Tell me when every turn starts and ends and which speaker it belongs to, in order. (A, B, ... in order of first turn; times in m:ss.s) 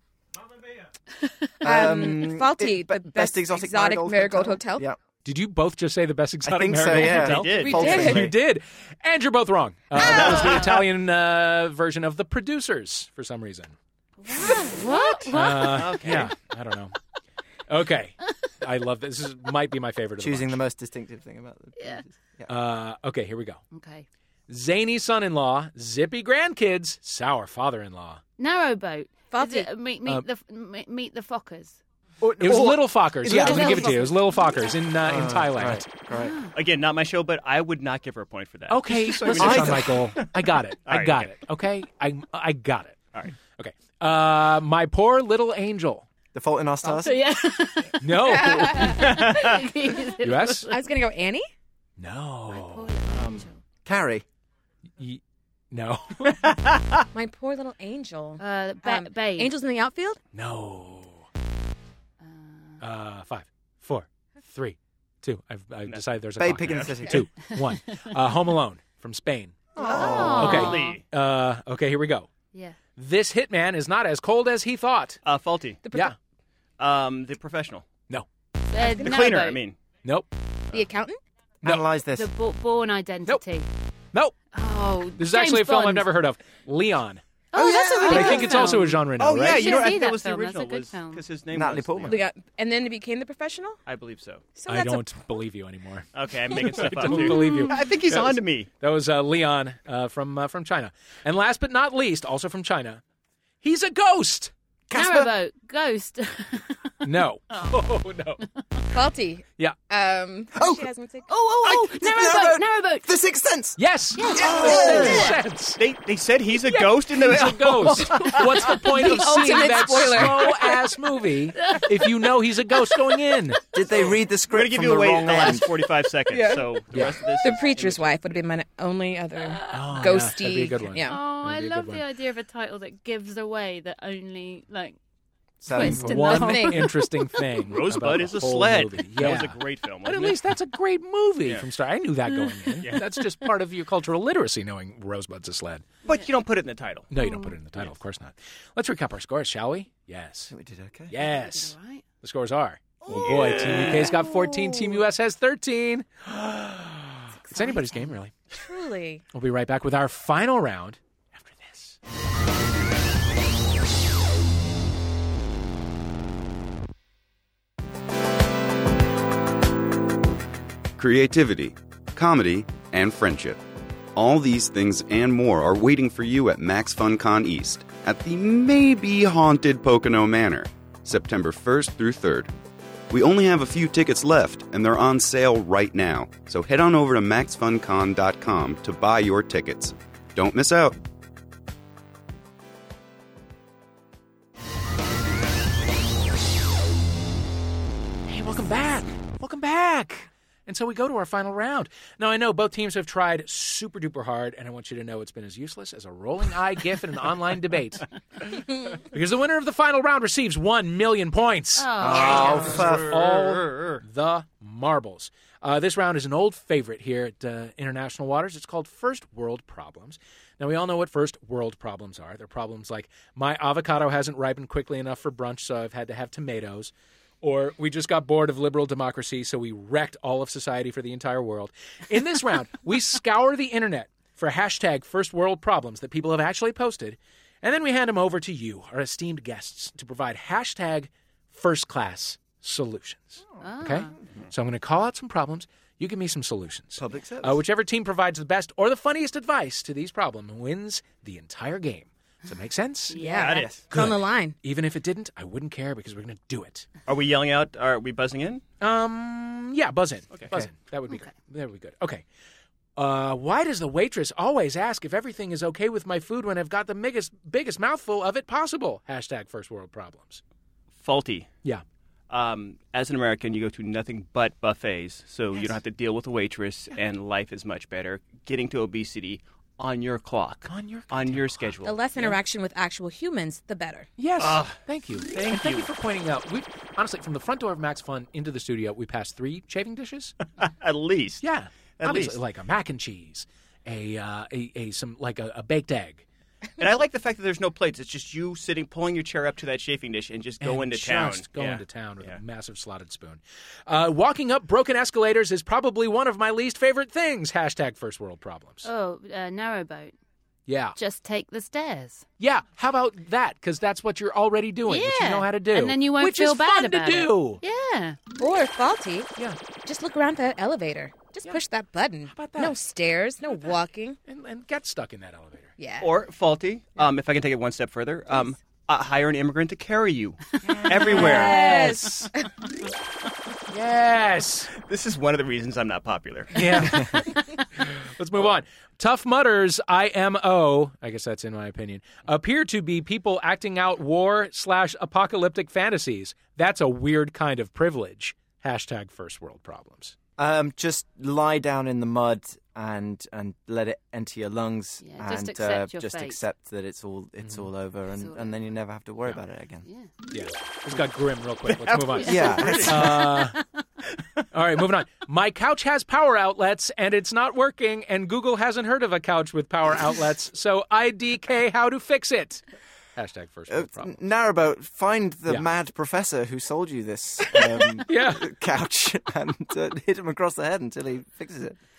0:01.6-0:05.0 A
0:01.6-0:04.8 B
0:05.2-0:13.7 C
0:06.4-0:08.3 A
0:07.0-0:08.1 D
0:07.6-0:08.3 B
0:10.3-0:10.5 B
0:14.2-0:16.0 E
0:14.3-0:15.3 B
0:15.3-0:17.0 C
0:15.6-0:16.3 D
0:17.7-0:20.6 C
0:20.2-0:22.5 A
0:21.8-0:22.0 E
0:22.5-0:23.6 C
0:23.7-0:24.0 E
0:24.5-0:28.2 C
0:28.4-0:31.8 E
0:29.3-0:29.7 B
0:32.2-0:34.0 A
0:32.4-0:35.9 C
0:33.3-0:34.1 B
0:33.4-0:34.1 E
0:35.0-0:36.4 A
0:36.1-0:36.5 E
0:36.5-0:41.3 D
0:38.7-0:43.0 C
0:39.4-0:39.9 A
0:43.6-0:46.1 C
0:46.3-0:47.2 A
0:46.8-0:50.8 E
0:48.0-0:49.0 C
0:48.2-0:49.6 B
0:48.9-0:49.6 D
0:50.2-0:50.7 C
0:50.7-0:51.4 B
0:52.0-0:52.9 C
0:52.5-0:53.6 E
0:53.1-0:53.4 D
0:53.8-0:54.2 A
0:55.0-0:56.5 C
0:56.4-0:57.0 D
0:57.1-1:00.2 B
0:58.4-0:59.5 E
1:00.3-1:01.2 C
1:02.2-1:02.8 E
1:02.8-1:09.6 C
1:06.4-1:07.3 A
1:06.6-1:07.0 D
1:09.8-1:11.0 D
1:09.8-1:10.6 A
1:09.8-1:11.0 E
1:10.3-1:12.3 C
1:12.5-1:12.8 E
1:13.0-1:15.2 C
1:15.2-1:15.8 D
1:15.8-1:16.1 B
1:16.8-1:17.9 D
1:18.7-1:19.6 E
1:18.8-1:19.8 D
1:18.8-1:19.2 B
1:20.0-1:20.3 C
1:20.7-1:21.2 B
1:21.6-1:22.3 A
1:22.1-1:23.7 E
1:24.5-1:26.1 E
1:25.2-1:27.2 C
1:27.5-1:31.2 E
1:27.5-1:28.6 A
1:27.6-1:28.5 B
1:28.0-1:29.8 C
1:29.2-1:32.2 D
1:31.5-1:32.2 A
1:32.1-1:33.8 B
1:33.8-1:34.4 D
1:34.5-1:35.0 B
1:34.7-1:43.0 C
1:36.1-1:38.7 D
1:37.4-1:37.7 E
1:43.6-1:44.5 C
1:44.9-1:45.3 A
1:44.9-1:46.9 E
1:47.0-1:48.4 C
1:48.9-1:51.3 B
1:50.5-1:50.9 A
1:51.3-1:53.1 E
1:51.6-1:53.8 A
1:53.8-1:55.8 C
1:54.2-1:55.3 E
1:54.3-1:55.2 B
1:54.3-1:55.3 A
1:54.9-1:55.2 D
1:55.8-1:58.7 D
1:57.1-2:03.6 C
1:58.4-2:00.8 B
2:01.6-2:03.2 E
2:03.7-2:05.9 A
2:03.9-2:08.1 D
2:06.3-2:11.2 B
2:09.7-2:12.0 C
2:11.0-2:15.0 E
2:15.6-2:16.5 A
2:15.7-2:17.1 E
2:15.8-2:25.9 C
2:15.8-2:17.0 B
2:17.6-2:20.4 D
2:22.8-2:23.0 D
2:26.0-2:27.1 D
2:27.1-2:30.5 C
2:27.2-2:27.5 E
2:30.5-2:31.1 A
2:31.1-2:38.3 C
2:31.2-2:32.0 E
2:33.2-2:33.9 D
2:34.1-2:35.0 B
2:37.5-2:37.8 E
2:38.5-2:39.2 B
2:39.3-2:42.0 C
2:51.0-2:53.6 F
2:54.2-3:02.5 F
3:03.1-3:11.0 F
3:18.3-3:28.0 C
3:29.0-4:13.2 C
3:31.8-3:32.7 E
3:32.0-3:33.1 A
3:32.2-3:34.0 D
4:03.6-4:04.1 E
4:07.0-4:07.6 A
4:13.1-4:13.7 E
4:13.1-4:14.6 B
4:13.3-4:13.8 D
4:13.9-4:16.9 C
4:17.1-4:18.6 D
4:18.8-4:22.2 C
4:23.0-4:30.4 C
4:31.0-4:31.5 D
4:32.3-4:42.4 D
4:40.6-4:41.7 C
4:41.8-4:44.1 B
4:44.2-4:50.3 C
4:44.4-4:45.9 D
4:50.6-4:51.4 D
4:51.4-4:56.2 C
4:52.0-4:52.4 D
4:56.8-5:02.4 D
5:00.6-5:08.8 C
5:08.8-5:10.1 E
5:10.7-5:11.0 C
5:11.0-5:12.2 E
5:12.4-5:17.6 C
5:14.9-5:18.2 E
5:18.4-5:19.3 B
5:19.8-5:24.2 B
5:22.3-5:22.8 C
5:24.2-5:25.7 C
5:25.8-5:26.1 B
5:26.0-5:31.9 D
5:30.7-5:32.5 B
5:31.0-5:32.3 C
5:33.7-5:34.7 C
5:34.8-5:37.2 D
5:36.5-5:50.1 C
5:50.4-5:59.9 A
5:55.0-5:56.4 E
5:57.4-5:57.7 C
5:58.1-5:58.5 E
5:59.8-6:00.1 E
6:00.3-6:03.6 C
6:01.7-6:03.1 D
6:02.2-6:03.2 A
6:02.2-6:02.7 E
6:04.5-6:12.6 C
6:13.2-6:14.2 C
6:13.7-6:21.8 A
6:18.0-6:18.5 C